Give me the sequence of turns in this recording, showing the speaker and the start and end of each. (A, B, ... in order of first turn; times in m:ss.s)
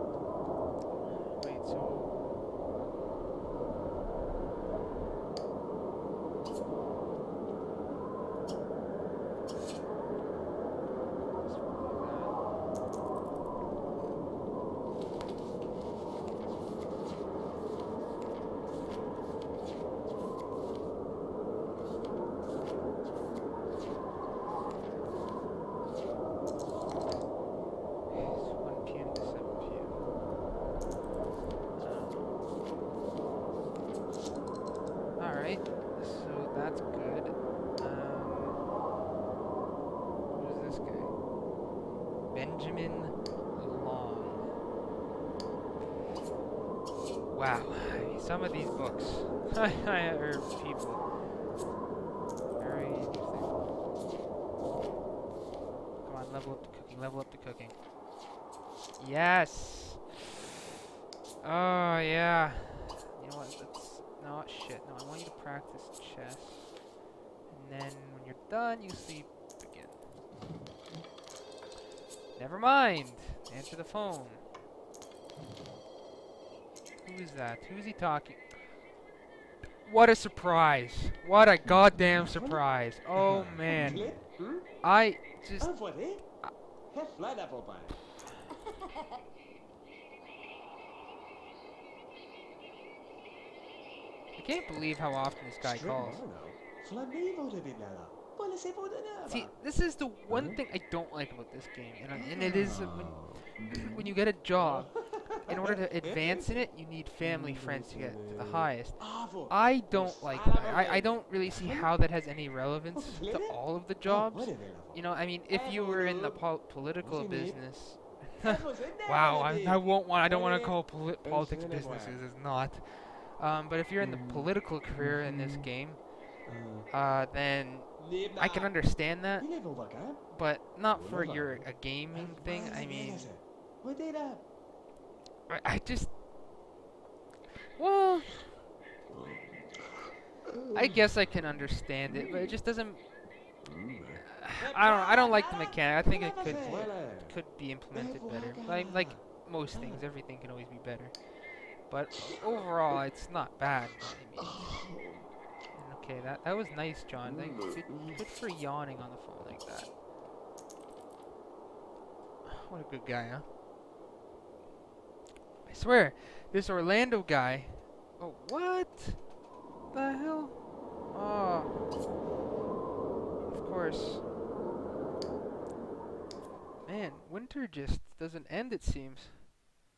0:01.2-0:02.4 A
0:11.4-0:12.4 A
0:28.1-0:30.1 A
0:31.8-0:32.3 A
0:35.2-0:38.7 A
0:40.3-0:41.2 A
0:42.3-0:44.5 A
0:47.3-0:51.3 A
0:52.6-0:53.7 A
0:56.0-0:57.9 A
0:59.0-1:00.3 A
1:01.4-1:06.8 A
1:07.5-1:10.0 A
1:12.3-1:14.4 A
1:17.0-1:18.5 A
1:19.8-1:26.6 A
1:22.1-1:24.8 B
1:25.4-1:28.1 B
1:34.3-1:36.2 A
1:35.6-1:39.7 B
1:39.2-2:13.3 A
1:40.3-1:40.6 B
1:42.1-1:44.0 B
1:44.6-1:52.0 B
1:52.9-2:02.2 B
2:04.0-2:04.4 B
2:05.0-2:05.5 B
2:06.4-2:06.9 B
2:08.0-2:14.5 B
2:15.5-2:16.2 A
2:17.8-2:18.6 A
2:19.1-2:19.8 B
2:20.7-2:23.2 A
2:23.7-2:30.0 B
2:24.2-2:35.0 A
2:34.5-2:35.3 B
2:35.7-2:39.9 A
2:42.4-2:43.5 A
2:45.6-2:49.3 A
2:49.9-2:51.8 A
2:53.5-2:54.3 A
2:56.8-2:59.5 A